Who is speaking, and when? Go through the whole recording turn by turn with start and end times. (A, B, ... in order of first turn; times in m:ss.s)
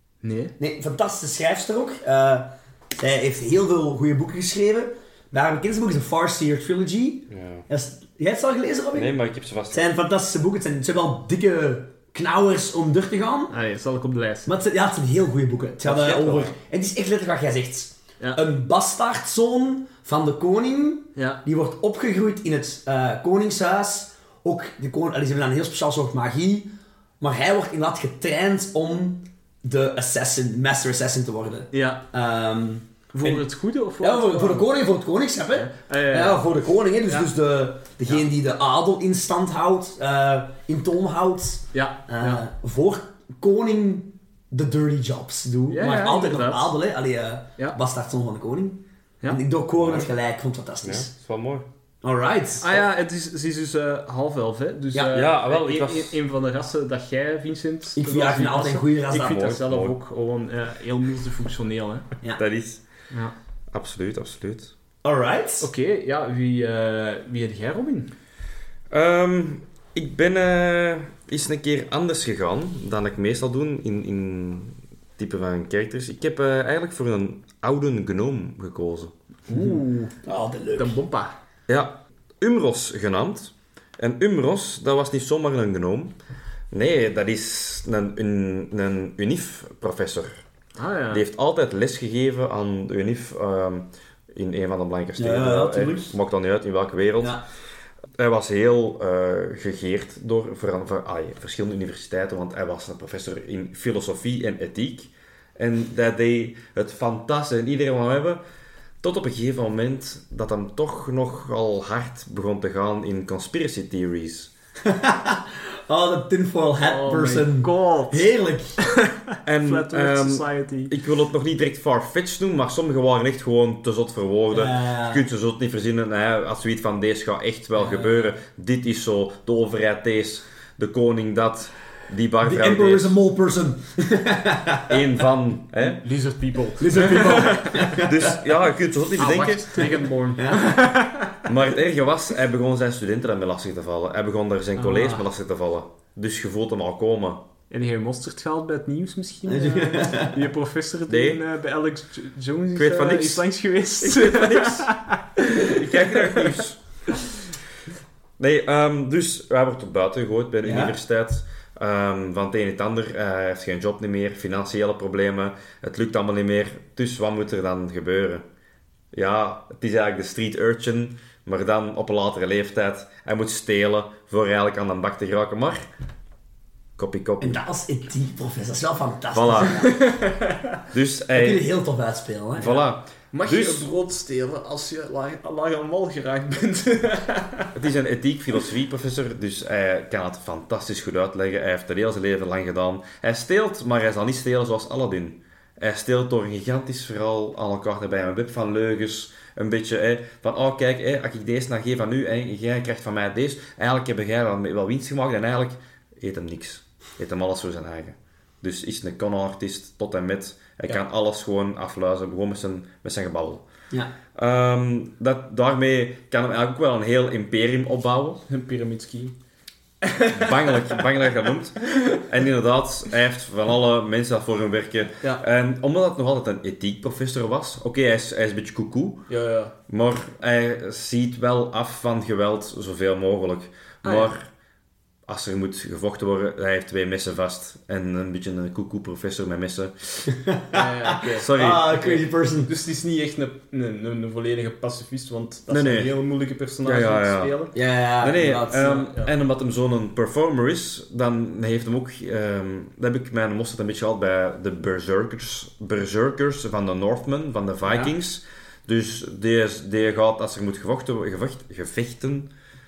0:00.2-0:00.5 A
0:00.6-0:09.1 B
0:07.3-0:07.6 C
0:08.9-0:09.8 C
0:09.7-0:13.5 B
0:13.5-0:14.5 A
0:14.4-0:33.4 B
0:15.9-0:16.5 C
0:15.9-0:16.2 A
0:21.2-0:21.4 A
0:31.7-0:32.0 A
0:33.1-0:34.7 A
0:34.0-0:51.1 B
0:35.5-0:36.4 A
0:41.7-0:42.4 A
0:45.7-0:46.7 A
0:49.8-0:50.1 C
0:50.8-0:51.6 C
0:52.0-0:52.8 B
0:52.6-1:02.0 A
0:55.1-0:56.2 C
0:58.0-0:59.5 B
0:59.3-0:59.9 C
1:02.4-1:02.8 C
1:03.7-1:04.7 C
1:05.0-1:05.7 B
1:05.6-1:08.1 A
1:08.9-1:19.1 C
1:19.5-1:20.1 A
1:20.2-1:20.9 B
1:20.8-1:21.4 A
1:21.7-1:26.1 C
1:26.7-1:30.4 C
1:30.8-1:31.2 A
1:31.1-1:37.4 C
1:35.2-1:36.1 B
1:38.2-1:48.4 C
1:49.0-1:54.5 C
1:54.8-1:58.8 B
1:56.8-2:00.9 A
1:59.4-2:13.2 C
2:04.5-2:05.2 B
2:12.4-2:15.0 B
2:14.9-2:16.0 C
2:15.8-2:18.1 A
2:16.8-2:18.4 B
2:18.0-2:19.8 C
2:19.2-2:21.4 A
2:20.4-2:20.8 B
2:21.4-2:27.4 C
2:24.8-2:25.2 A
2:27.7-2:36.6 A
2:29.5-2:30.4 B
2:31.1-2:31.4 C
2:32.7-2:33.4 C
2:34.2-2:34.8 C
2:35.7-2:36.8 C
2:38.4-2:48.4 C
2:40.6-2:41.0 B
2:49.1-2:55.8 C
2:57.0-2:57.6 C
2:57.4-3:00.0 B
2:59.3-2:59.8 C
2:59.8-3:00.8 A
3:00.9-3:01.6 C
3:01.3-3:02.8 B
3:02.6-3:03.9 C
3:03.3-3:07.7 A
3:07.7-3:33.6 C
3:34.3-3:38.4 C
3:38.5-3:39.3 A
3:40.0-3:41.0 A
3:40.3-3:49.2 C
3:49.3-3:49.7 A
3:49.9-3:54.5 C
3:54.0-3:54.3 A
3:55.3-4:00.3 C
4:00.3-4:02.7 B
4:00.7-4:07.7 A
4:01.4-4:01.9 C
4:05.7-4:06.1 C
4:06.8-4:07.6 C
4:07.7-4:09.0 B
4:08.2-4:22.5 C
4:08.8-4:09.3 A
4:17.8-4:18.1 A